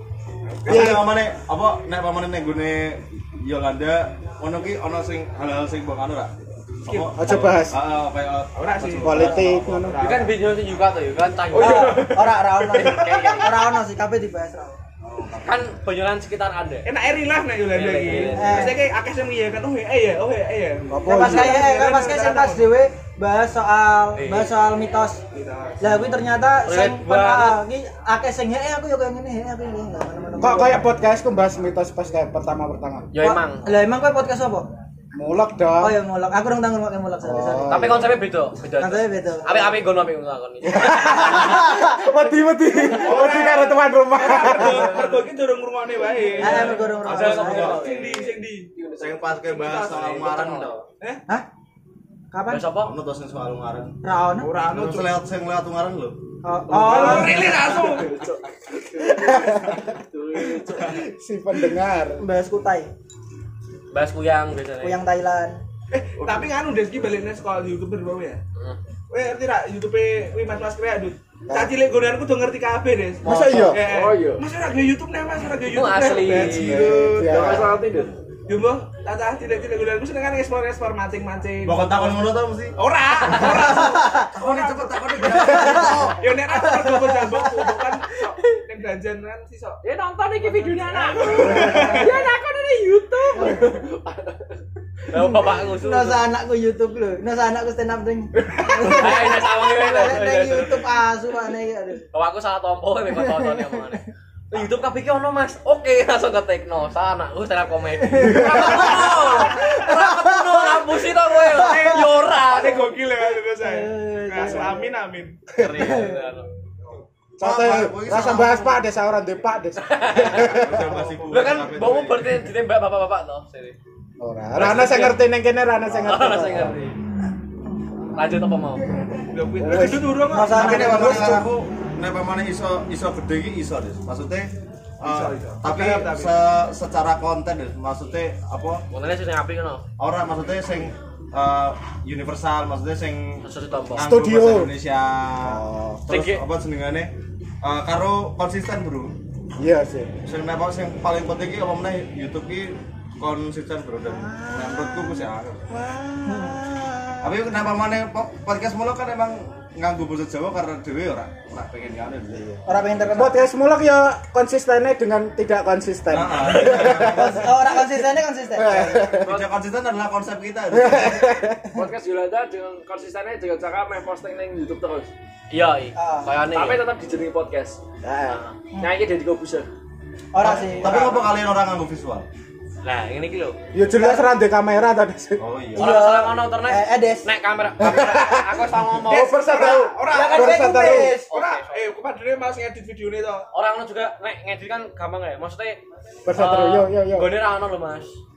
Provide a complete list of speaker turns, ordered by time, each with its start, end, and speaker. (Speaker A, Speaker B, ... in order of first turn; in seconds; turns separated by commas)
Speaker A: 0.5-1.0, Speaker B: 0.7-10.0, Speaker C: 0.7-1.1, Speaker A: 6.9-7.5, Speaker C: 7.2-7.8, Speaker A: 8.5-10.4, Speaker C: 9.0-10.0, Speaker D: 10.0-12.1, Speaker E: 11.5-12.5, Speaker A: 11.6-13.6, Speaker F: 11.6-14.8, Speaker D: 12.7-13.8, Speaker B: 15.1-15.6, Speaker D: 15.4-16.9, Speaker A: 16.9-22.7, Speaker D: 17.7-18.8, Speaker F: 18.4-18.8, Speaker C: 20.9-21.7, Speaker F: 21.1-25.2, Speaker D: 24.1-24.6, Speaker A: 25.3-26.0, Speaker F: 25.8-30.9, Speaker D: 26.6-27.6, Speaker C: 30.4-33.1, Speaker D: 33.1-33.7, Speaker F: 33.2-34.7, Speaker C: 35.1-36.0, Speaker F: 35.8-38.1, Speaker C: 37.2-38.2, Speaker D: 37.7-41.6, Speaker F: 38.8-39.8, Speaker C: 40.6-45.0, Speaker F: 41.4-41.9, Speaker A: 42.8-47.0, Speaker E: 44.2-45.3, Speaker F: 46.4-48.0, Speaker D: 46.4-48.3, Speaker B: 46.4-48.4, Speaker A: 47.6-48.7, Speaker B: 49.0-50.9, Speaker A: 49.5-50.2, Speaker D: 49.7-50.8, Speaker F: 52.3-52.7, Speaker D: 52.5-52.9, Speaker B: 52.8-54.0, Speaker F: 54.0-54.6, Speaker A: 54.4-55.1, Speaker B: 54.6-58.3, Speaker F: 56.4-57.5, Speaker A: 56.8-58.1, Speaker E: 57.4-61.0, Speaker C: 59.1-59.8, Speaker C: 60.8-62.2, Speaker F: 62.2-62.9, Speaker D: 63.9-65.0, Speaker F: 64.8-65.6, Speaker A: 65.9-68.4, Speaker E: 66.2-66.5, Speaker A: 69.1-77.6, Speaker C: 73.2-73.8, Speaker F: 73.3-73.7, Speaker E: 73.7-74.4, Speaker D: 75.7-76.9, Speaker C: 76.5-77.8, Speaker E: 77.1-78.1, Speaker A: 78.5-84.4, Speaker B: 81.6-82.8, Speaker B: 83.3-86.3, Speaker F: 83.8-84.3, Speaker A: 85.2-89.8, Speaker F: 85.6-87.7, Speaker E: 89.9-94.5, Speaker D: 90.4-92.4, Speaker A: 90.8-92.1, Speaker D: 95.1-96.2, Speaker F: 95.1-102.0, Speaker D: 98.8-100.9, Speaker D: 102.1-113.0, Speaker F: 103.2-103.9, Speaker F: 108.0-110.8, Speaker F: 111.4-112.0, Speaker A: 111.6-115.4, Speaker F: 113.6-114.9, Speaker D: 115.6-116.5, Speaker F: 115.7-116.2, Speaker C: 117.4-120.9, Speaker B: 117.4-118.8, Speaker D: 119.8-120.5, Speaker B: 120.3-122.4, Speaker D: 121.3-123.8, Speaker C: 124.2-126.8, Speaker A: 124.8-125.2, Speaker D: 126.1-127.0, Speaker D: 128.1-128.8, Speaker A: 129.3-131.2, Speaker C: 129.6-130.2, Speaker F: 130.2-131.5, Speaker B: 130.5-138.8, Speaker A: 135.0-136.3, Speaker D: 138.9-139.8, Speaker B: 140.0-147.1, Speaker D: 143.4-144.1, Speaker C: 144.0-144.7, Speaker C: 145.4-146.1, Speaker D: 146.1-146.4, Speaker B: 147.6-149.2, Speaker C: 149.6-150.1, Speaker B: 150.2-155.7, Speaker F: 154.1-155.2, Speaker F: 155.7-157.4, Speaker B: 157.2-162.6, Speaker F: 162.7-163.5, Speaker C: 163.1-167.6, Speaker B: 166.1-167.6, Speaker F: 167.0-168.8, Speaker C: 168.6-169.4, Speaker B: 168.6-171.4, Speaker C: 170.7-171.7, Speaker E: 171.8-175.1, Speaker D: 175.5-176.8, Speaker F: 176.0-176.4, Speaker E: 176.5-177.8, Speaker C: 178.0-178.4, Speaker D: 178.3-178.6, Speaker E: 178.8-179.7, Speaker F: 180.3-181.0, Speaker B: 180.4-182.3, Speaker D: 182.8-183.6, Speaker C: 183.7-185.4, Speaker F: 183.8-184.3, Speaker B: 185.4-186.0, Speaker F: 185.8-187.3, Speaker D: 185.8-189.6, Speaker C: 187.8-191.2, Speaker A: 189.1-193.5, Speaker F: 189.7-191.3, Speaker D: 191.3-191.9, Speaker D: 193.5-195.8, Speaker C: 196.3-197.3, Speaker D: 196.3-198.2